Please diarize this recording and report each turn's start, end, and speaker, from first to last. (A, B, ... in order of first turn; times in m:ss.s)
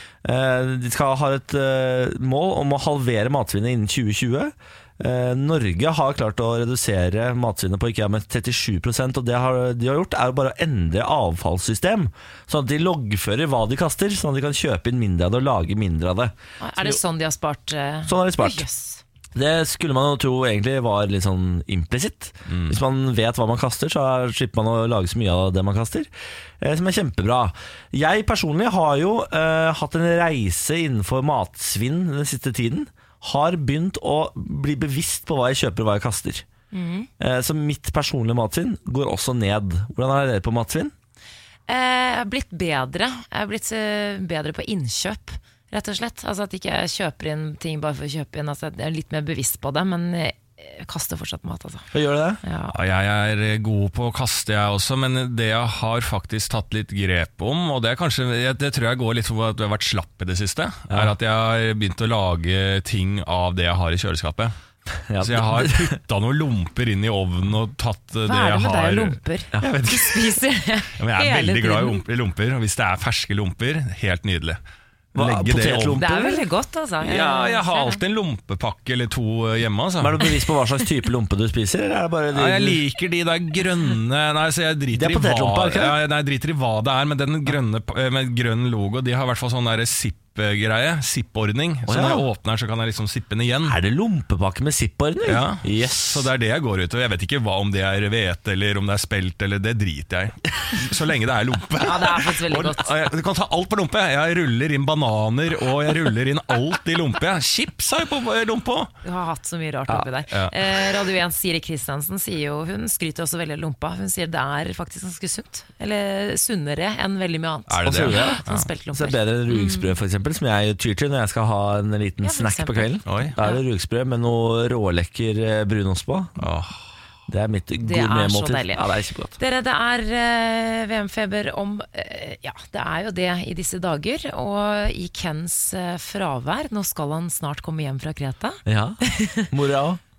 0:00.2-0:17.0 A
0:16.6-0:19.0 B
0:18.0-0:18.6 A
0:19.3-0:36.4 A
0:22.5-0:22.8 C
0:36.7-0:37.1 B
0:37.2-0:40.9 A
0:41.7-0:51.9 B
0:51.9-0:52.4 A
0:52.4-0:52.8 B
0:52.7-1:04.5 C
1:05.1-1:05.9 A
1:05.2-1:10.4 C
1:08.2-1:12.0 B
1:11.0-1:14.6 C
1:15.1-1:16.0 C
1:15.1-1:16.4 A
1:16.0-1:18.0 B
1:17.0-1:20.2 C
1:20.0-1:22.8 A
1:22.3-1:33.8 C
1:24.9-1:26.0 A
1:31.9-1:32.2 A
1:33.6-1:36.3 A
1:35.2-1:48.9 C
1:41.8-1:42.9 B
1:49.0-1:59.9 B
1:50.3-1:50.6 C
1:57.7-1:58.7 C
1:57.8-2:06.4 A
2:02.2-2:03.6 B
2:03.0-2:03.3 C
2:06.4-2:06.8 C
2:07.3-2:09.3 A
2:07.8-2:08.8 B
2:09.4-2:19.5 B
2:18.6-2:20.0 A